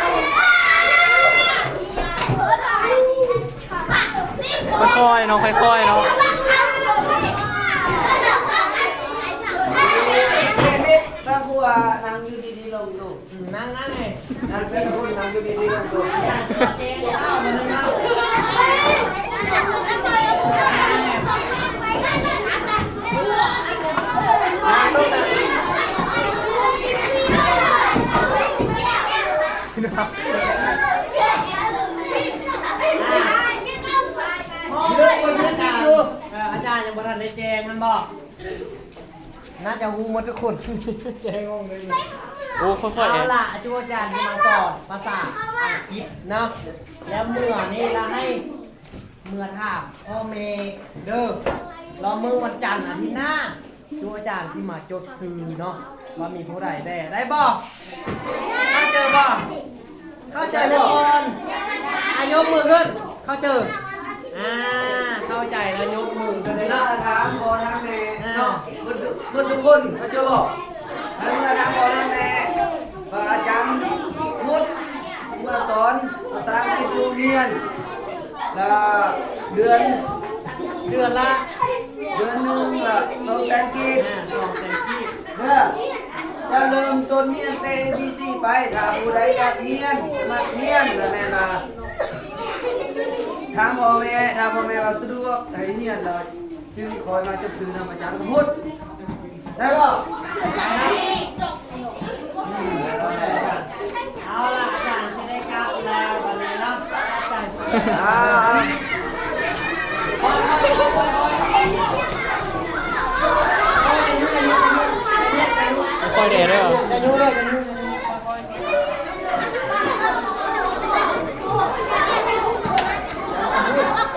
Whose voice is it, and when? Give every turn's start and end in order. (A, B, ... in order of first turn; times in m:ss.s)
0:04.8-0:06.1 A
0:09.7-0:13.2 B
0:13.3-0:14.3 C
0:14.5-0:16.2 B
0:16.1-0:18.1 C
0:20.6-0:21.3 C
0:24.6-0:25.4 B
0:29.8-0:30.4 C
0:30.0-0:30.4 B
0:33.0-0:33.4 C
0:34.7-0:38.1 C
0:34.8-0:36.1 B
0:39.6-0:42.0 C
0:42.6-0:43.3 A
0:43.0-0:46.5 C
0:47.1-0:48.4 C
0:49.2-0:51.4 C
0:52.0-0:57.6 C
0:58.7-0:59.5 C
1:00.3-1:01.4 C
1:00.4-1:01.0 B
1:02.0-1:03.7 C
1:04.3-1:06.8 C
1:06.6-1:10.6 B
1:08.2-1:08.7 C
1:11.2-1:12.6 B
1:13.1-1:14.7 B
1:15.2-1:17.6 B
1:18.5-1:20.0 B
1:20.8-1:21.5 C
1:22.1-1:24.0 B
1:24.0-1:25.1 C
1:25.3-1:25.8 B
1:26.5-1:31.6 B
1:33.5-1:38.6 B
1:39.6-1:40.0 B
1:40.4-1:41.0 C
1:42.4-1:43.7 C
1:42.8-1:43.4 B
1:44.2-1:48.7 C
1:47.9-1:48.8 B
1:50.2-1:51.7 C
1:53.8-1:58.5 C
1:56.0-1:56.8 A
2:03.5-2:03.8 B